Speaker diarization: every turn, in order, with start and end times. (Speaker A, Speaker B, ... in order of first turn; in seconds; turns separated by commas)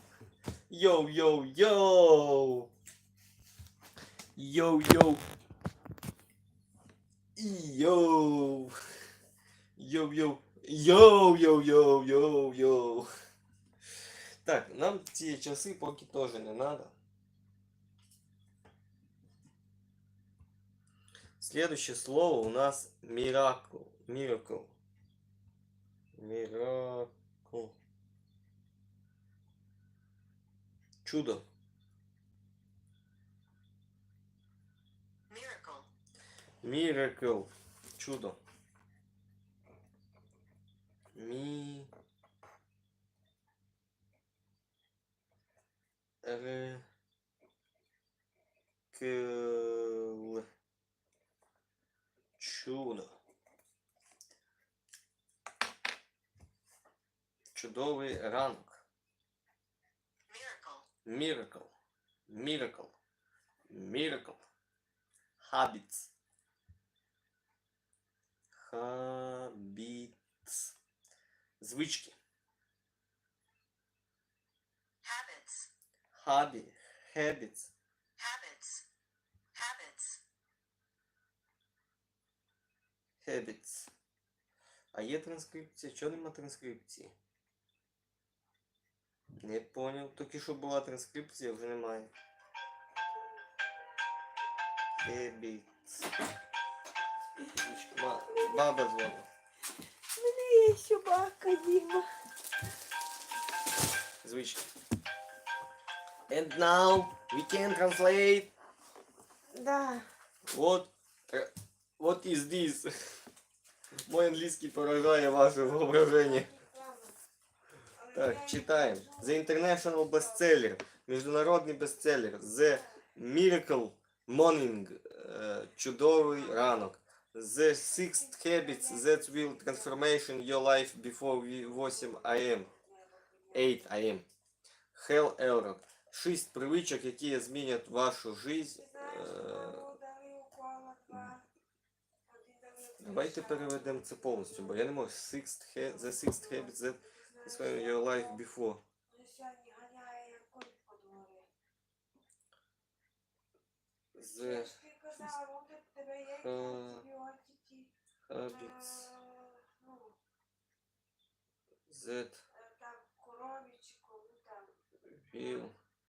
Speaker A: 0.7-2.7, Speaker A: 4.4-5.2, Speaker A: 7.4-8.7, Speaker A: 9.8-13.1, Speaker A: 14.4-16.9, Speaker A: 21.4-24.8, Speaker A: 26.2-27.8, Speaker A: 31.1-31.4, Speaker B: 35.3-35.9, Speaker A: 36.6-38.4, Speaker A: 41.1-41.9, Speaker A: 46.2-46.8, Speaker A: 48.9-50.5, Speaker A: 52.4-53.1, Speaker A: 57.5-58.8, Speaker B: 60.3-60.9, Speaker A: 61.0-61.7, Speaker A: 62.3-62.9, Speaker A: 63.7-64.5, Speaker A: 65.4-66.1, Speaker A: 68.5-70.8, Speaker A: 71.6-72.2, Speaker B: 75.0-75.7, Speaker A: 76.1-77.7, Speaker B: 78.2-78.8, Speaker B: 79.5-80.2, Speaker A: 83.2-83.9, Speaker A: 84.9-87.1, Speaker A: 89.4-92.1, Speaker A: 95.0-96.1, Speaker A: 97.5-99.3, Speaker C: 100.2-102.1, Speaker A: 104.2-104.7, Speaker A: 106.3-108.5, Speaker C: 109.5-110.1, Speaker A: 110.5-112.9, Speaker A: 114.1-116.5, Speaker C: 115.7-117.2, Speaker C: 118.0-119.5, Speaker A: 118.1-132.7, Speaker C: 127.8-130.1, Speaker C: 131.6-133.7, Speaker A: 133.5-134.3, Speaker A: 134.9-139.9, Speaker C: 138.8-141.4, Speaker C: 142.3-144.8, Speaker A: 143.0-148.8, Speaker C: 145.9-148.4, Speaker C: 149.1-151.5, Speaker A: 154.2-155.3, Speaker C: 154.4-157.9, Speaker A: 156.3-157.0, Speaker A: 158.3-159.1, Speaker C: 158.5-160.2, Speaker A: 161.9-162.4, Speaker C: 162.5-164.7, Speaker A: 165.2-165.8, Speaker C: 165.3-165.7